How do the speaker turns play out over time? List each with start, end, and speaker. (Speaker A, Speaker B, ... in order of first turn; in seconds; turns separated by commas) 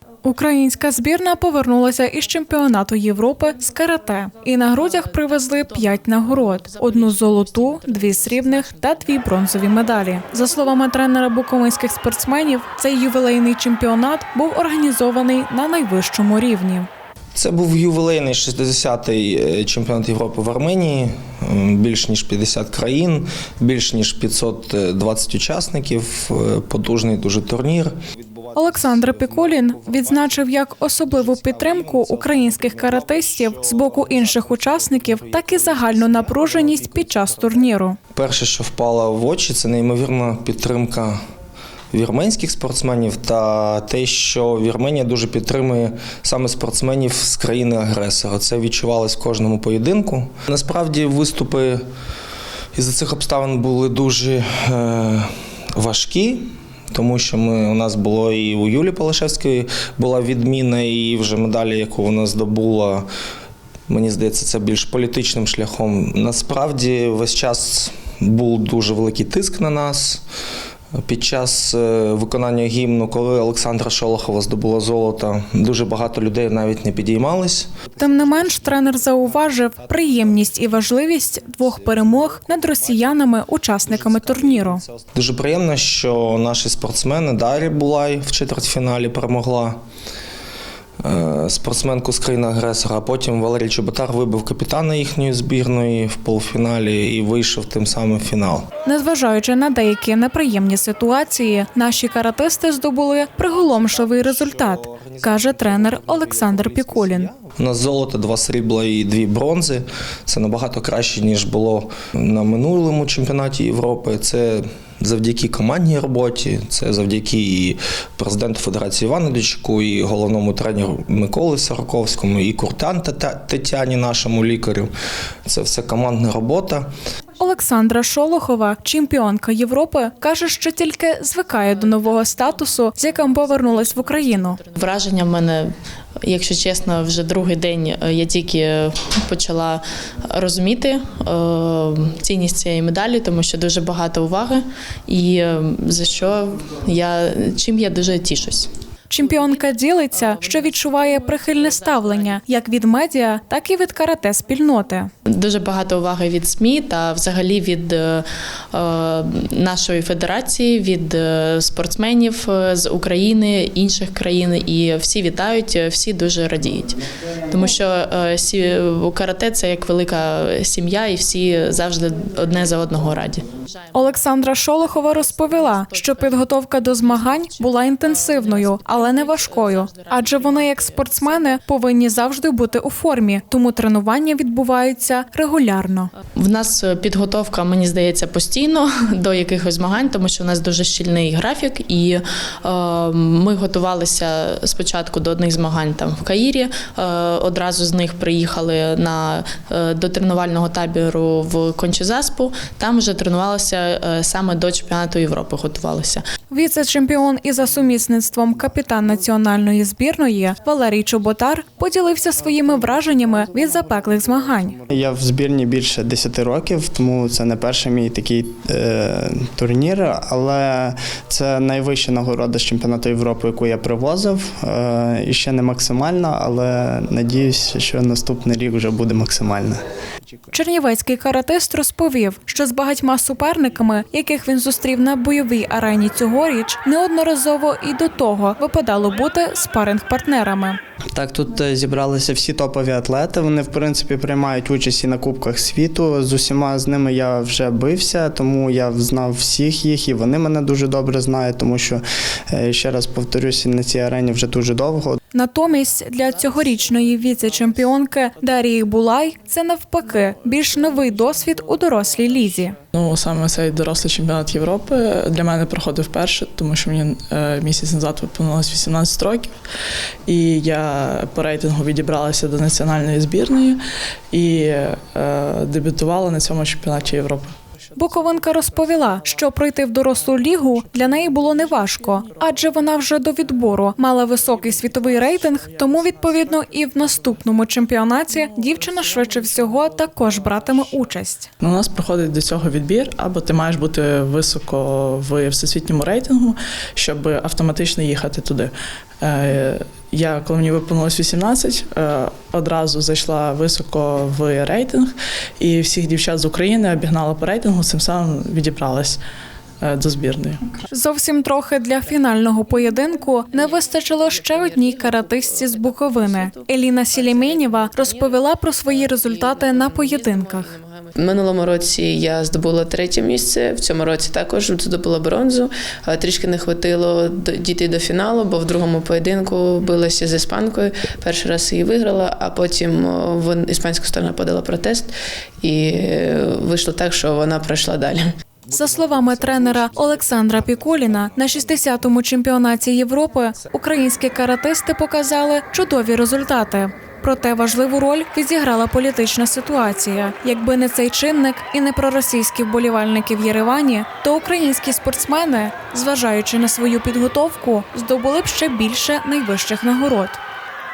Speaker A: 0.2-16.9, Speaker B: 4.9-9.9, Speaker C: 17.3-30.4, Speaker A: 28.5-38.0, Speaker C: 31.1-37.6, Speaker C: 38.1-41.2, Speaker C: 41.9-51.8, Speaker C: 52.8-63.0, Speaker C: 63.9-70.2, Speaker C: 71.0-89.8, Speaker A: 78.0-84.8, Speaker C: 91.0-98.7, Speaker A: 98.8-107.3, Speaker C: 103.5-124.9, Speaker C: 125.5-126.9, Speaker A: 127.4-134.6, Speaker B: 131.6-135.7, Speaker B: 136.2-148.7, Speaker A: 149.1-155.1, Speaker B: 150.1-152.4, Speaker B: 155.3-181.6, Speaker A: 173.9-186.1, Speaker B: 186.3-206.2, Speaker A: 206.5-214.8, Speaker D: 214.9-229.8, Speaker A: 230.5-240.8, Speaker D: 241.1-255.2, Speaker A: 255.3-262.8, Speaker E: 260.3-261.1, Speaker E: 262.9-269.5, Speaker E: 270.3-273.8, Speaker E: 274.3-278.4, Speaker A: 277.9-291.5, Speaker E: 280.8-282.2, Speaker E: 291.6-309.2, Speaker E: 309.8-310.8, Speaker A: 310.9-320.8, Speaker F: 321.1-338.3, Speaker A: 338.7-360.4